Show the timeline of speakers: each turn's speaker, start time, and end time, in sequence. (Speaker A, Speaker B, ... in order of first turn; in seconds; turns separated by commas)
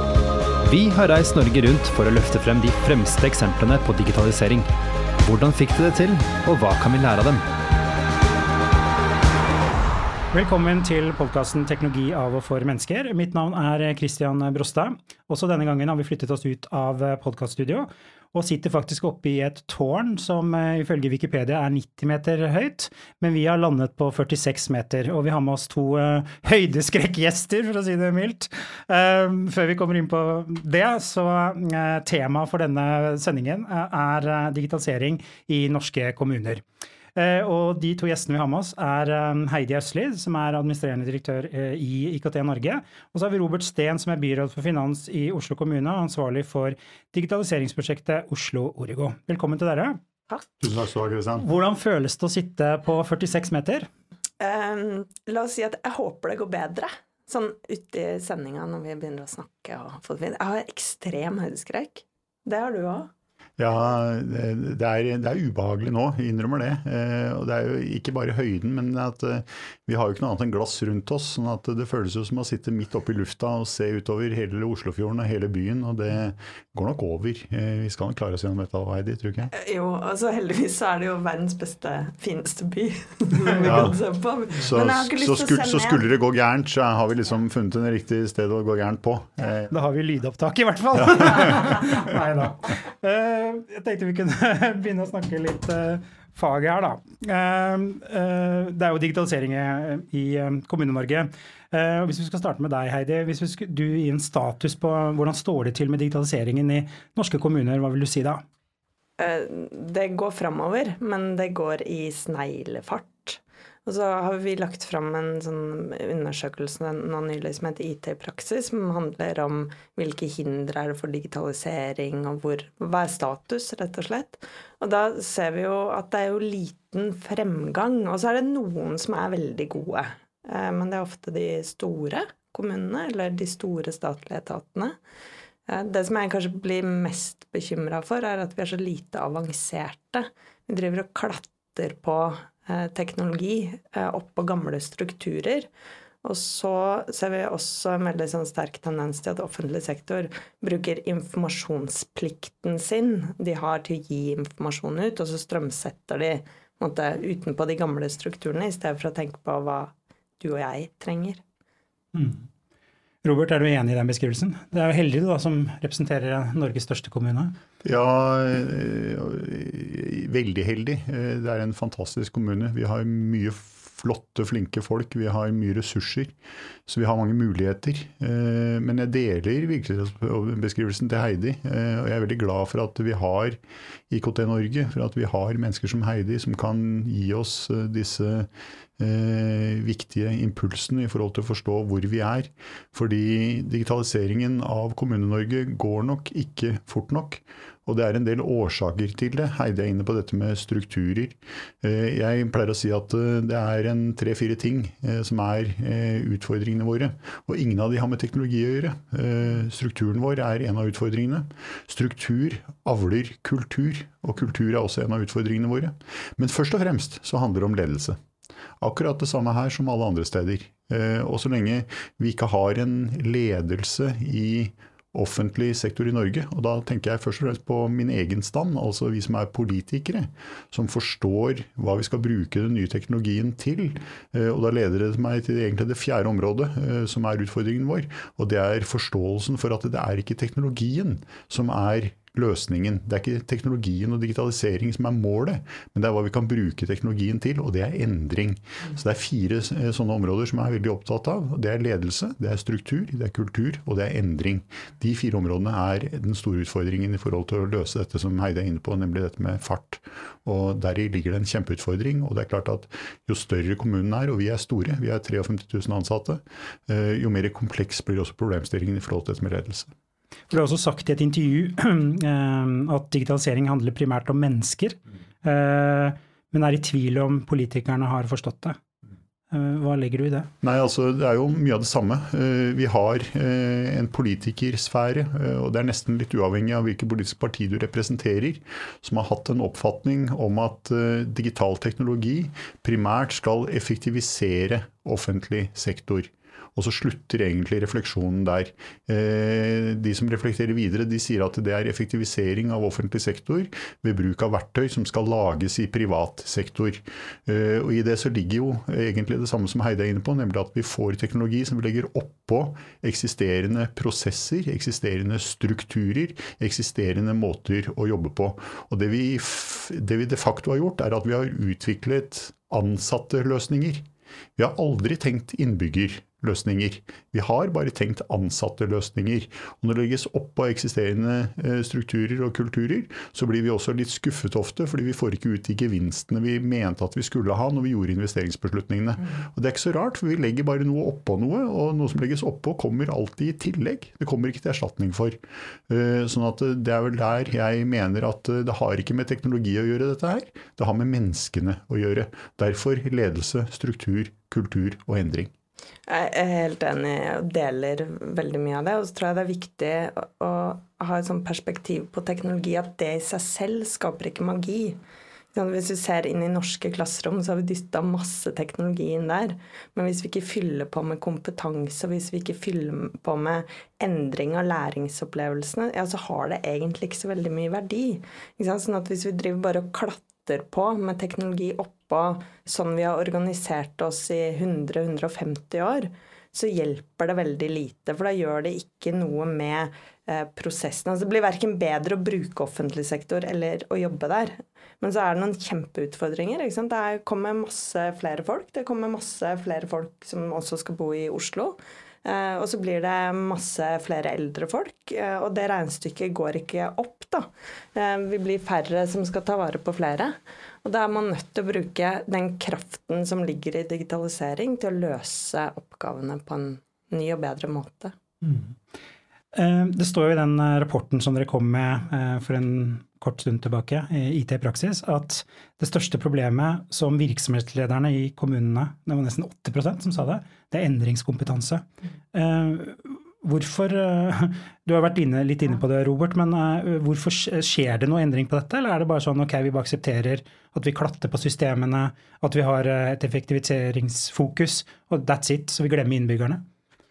Speaker A: 0.6-4.7, Speaker A: 5.2-7.5, Speaker B: 10.3-36.6, Speaker B: 37.1-50.0, Speaker C: 50.6-51.5, Speaker B: 51.4-53.9, Speaker D: 54.4-63.1, Speaker C: 63.6-79.5, Speaker D: 79.5-86.0, Speaker C: 83.6-84.0, Speaker C: 84.5-89.7, Speaker B: 89.7-108.5, Speaker C: 91.0-91.5, Speaker D: 109.2-135.0, Speaker D: 135.7-145.7, Speaker D: 146.2-161.4, Speaker B: 162.1-162.4, Speaker B: 163.2-167.6, Speaker C: 167.8-176.3, Speaker C: 176.9-183.6, Speaker C: 184.1-218.2, Speaker C: 218.8-269.9, Speaker B: 270.5-278.8, Speaker B: 279.5-280.5, Speaker C: 280.6-324.0, Speaker C: 324.6-355.5, Speaker D: 356.1-365.0, Speaker D: 365.5-418.1, Speaker B: 418.4-418.7, Speaker B: 419.5-446.6